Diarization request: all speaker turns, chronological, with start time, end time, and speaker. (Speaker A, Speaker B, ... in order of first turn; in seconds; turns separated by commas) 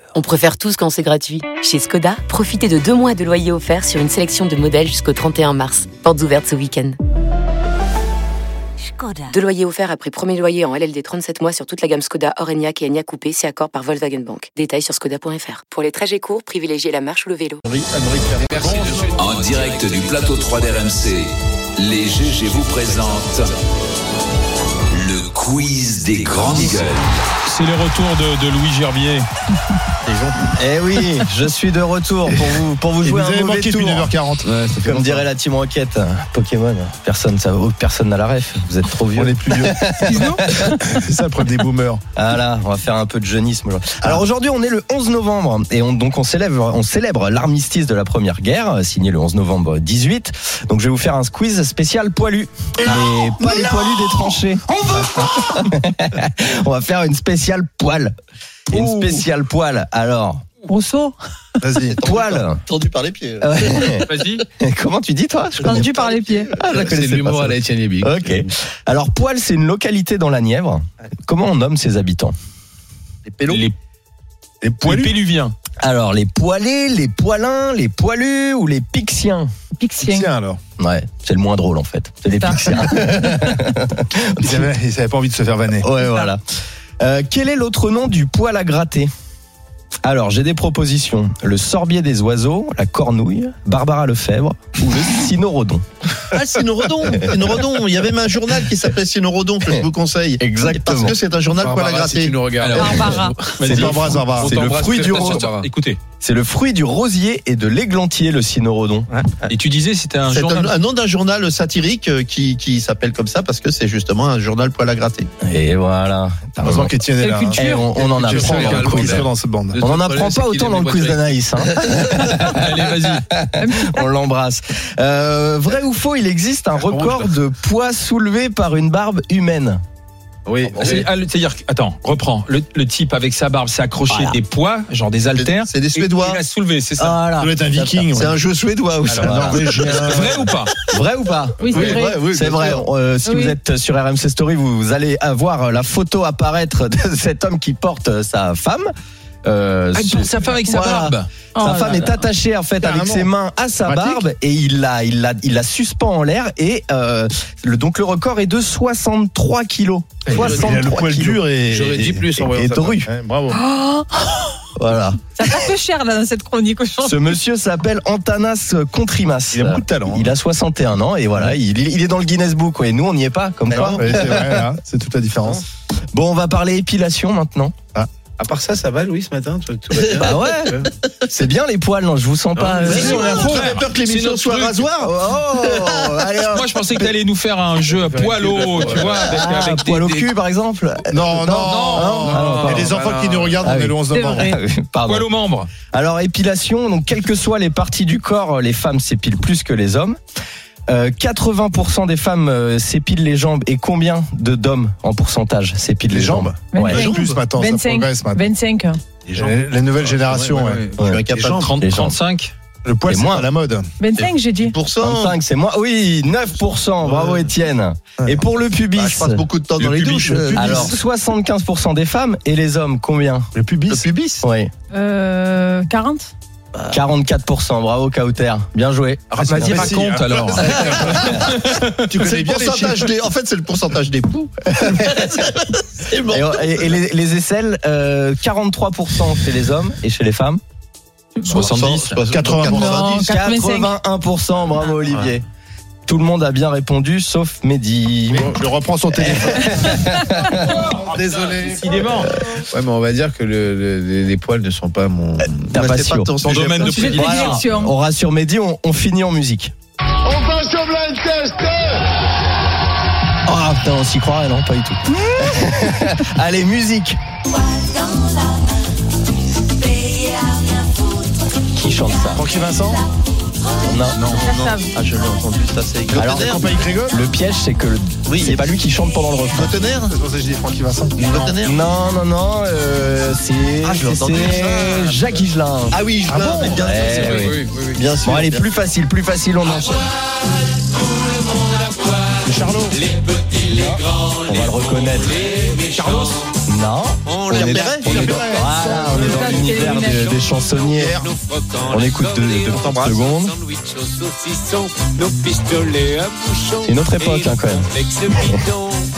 Speaker A: 0.2-7.0, Speaker A: 9.2-17.6, Speaker B: 17.7-19.1, Speaker C: 18.5-19.0, Speaker D: 18.6-19.1, Speaker E: 19.2-23.5, Speaker E: 24.9-27.1, Speaker C: 27.4-29.3, Speaker B: 30.1-30.5, Speaker F: 30.5-34.1, Speaker B: 33.0-35.2, Speaker F: 34.6-40.8, Speaker B: 39.1-39.8, Speaker G: 40.0-40.4, Speaker B: 40.5-42.0, Speaker F: 42.1-58.1, Speaker H: 53.5-54.1, Speaker F: 58.7-60.5, Speaker G: 60.7-61.2, Speaker B: 61.6-62.0, Speaker H: 61.9-64.0, Speaker F: 62.0-62.6, Speaker F: 63.4-72.3, Speaker C: 64.1-64.4, Speaker G: 65.6-66.5, Speaker D: 66.5-68.5, Speaker H: 73.2-73.7, Speaker C: 73.5-73.8, Speaker B: 74.6-75.2, Speaker C: 74.8-75.5, Speaker F: 75.8-79.5, Speaker G: 79.8-80.3, Speaker B: 80.0-80.6, Speaker F: 80.8-84.7, Speaker G: 82.4-83.0, Speaker B: 84.4-85.9, Speaker F: 85.8-86.4, Speaker F: 87.0-89.1, Speaker F: 90.0-95.9, Speaker H: 96.3-102.4, Speaker F: 100.4-101.2, Speaker B: 101.5-102.3, Speaker D: 101.8-105.7, Speaker C: 102.6-103.0, Speaker G: 102.7-103.4, Speaker C: 103.5-106.0, Speaker F: 103.6-104.0, Speaker B: 103.7-104.8, Speaker F: 104.6-105.5, Speaker F: 106.2-109.1, Speaker C: 109.5-110.7, Speaker H: 110.2-115.3, Speaker F: 115.4-117.0, Speaker B: 116.6-119.8, Speaker G: 117.2-117.9, Speaker F: 117.5-129.8, Speaker D: 118.2-121.4, Speaker C: 122.5-123.3, Speaker G: 123.5-124.1, Speaker D: 130.5-131.1, Speaker C: 130.7-137.2, Speaker H: 135.3-136.4, Speaker F: 137.0-138.2, Speaker B: 137.3-138.4, Speaker H: 138.2-140.9, Speaker B: 139.0-140.4, Speaker F: 139.1-139.8, Speaker C: 139.9-140.7, Speaker F: 140.9-148.9, Speaker G: 141.6-142.2, Speaker D: 141.7-142.8, Speaker H: 141.8-142.0, Speaker G: 143.2-143.6, Speaker F: 149.4-161.4, Speaker C: 149.9-151.3, Speaker G: 151.5-152.1, Speaker B: 152.8-153.3, Speaker B: 153.8-154.2, Speaker B: 160.3-162.2, Speaker D: 160.3-160.9, Speaker D: 161.7-163.0, Speaker F: 162.0-163.1, Speaker B: 163.1-163.6, Speaker G: 163.5-164.6, Speaker F: 164.8-165.6, Speaker G: 165.4-167.3, Speaker F: 167.0-174.6, Speaker B: 169.5-170.3, Speaker B: 173.7-175.6, Speaker H: 173.7-174.0, Speaker F: 176.1-177.8, Speaker D: 178.4-180.9, Speaker F: 180.1-183.6, Speaker D: 182.6-183.1, Speaker H: 182.9-186.7, Speaker C: 182.9-184.9, Speaker B: 183.0-183.8, Speaker F: 185.0-186.6, Speaker C: 186.5-190.3, Speaker D: 187.9-189.4, Speaker F: 189.0-193.0, Speaker B: 191.1-194.5, Speaker C: 191.6-193.1, Speaker D: 192.3-193.6, Speaker F: 193.6-195.3, Speaker G: 194.1-194.6, Speaker C: 195.1-195.7, Speaker F: 195.9-200.2, Speaker F: 200.9-207.1, Speaker B: 206.1-208.5, Speaker G: 206.7-209.0, Speaker B: 209.3-211.6, Speaker D: 209.4-211.1, Speaker H: 211.0-211.8, Speaker C: 211.6-212.5, Speaker F: 211.8-212.2, Speaker B: 212.8-213.9, Speaker F: 213.1-213.4, Speaker G: 214.0-214.7, Speaker H: 214.2-215.4, Speaker F: 215.0-219.4, Speaker H: 217.1-217.4, Speaker H: 218.9-220.9, Speaker C: 219.8-220.2, Speaker B: 220.1-220.9, Speaker F: 220.5-223.5, Speaker B: 223.5-224.4, Speaker F: 224.4-224.7, Speaker G: 224.9-226.3, Speaker F: 226.9-229.9, Speaker C: 229.3-232.1, Speaker B: 229.4-231.5, Speaker B: 232.1-233.1, Speaker H: 232.1-237.0, Speaker F: 234.9-235.2, Speaker F: 236.3-240.6, Speaker C: 241.4-242.2, Speaker H: 241.4-243.3, Speaker B: 242.2-243.0, Speaker G: 242.6-243.9, Speaker F: 243.3-245.5, Speaker F: 246.1-248.5, Speaker B: 248.3-252.0, Speaker F: 249.2-250.6, Speaker C: 250.7-251.1, Speaker C: 251.6-252.3, Speaker D: 252.6-255.8, Speaker H: 255.7-257.2, Speaker F: 255.7-256.3, Speaker C: 256.4-257.6, Speaker G: 256.8-257.9, Speaker F: 256.9-259.7, Speaker B: 260.3-262.0, Speaker F: 263.5-267.2, Speaker F: 271.7-272.4, Speaker B: 272.3-273.1, Speaker F: 273.8-274.2, Speaker H: 274.1-276.9, Speaker C: 274.1-274.4, Speaker G: 274.3-274.9, Speaker B: 276.1-277.2, Speaker F: 276.1-279.7, Speaker H: 278.3-278.6, Speaker H: 279.5-280.1, Speaker B: 280.0-281.5, Speaker H: 281.2-281.8, Speaker F: 281.5-287.6, Speaker H: 283.8-285.2, Speaker H: 285.9-288.7, Speaker B: 286.3-286.9, Speaker C: 286.9-287.6, Speaker D: 287.0-288.0, Speaker F: 288.2-290.1, Speaker B: 292.4-293.0, Speaker D: 293.0-293.6, Speaker F: 293.7-295.4, Speaker D: 295.1-296.4, Speaker C: 296.0-296.4, Speaker F: 296.6-301.2, Speaker D: 297.3-298.4, Speaker H: 297.4-298.7, Speaker B: 298.0-300.3, Speaker G: 298.6-300.4, Speaker B: 300.9-301.3, Speaker D: 301.3-309.1, Speaker F: 301.9-303.6, Speaker F: 306.8-308.7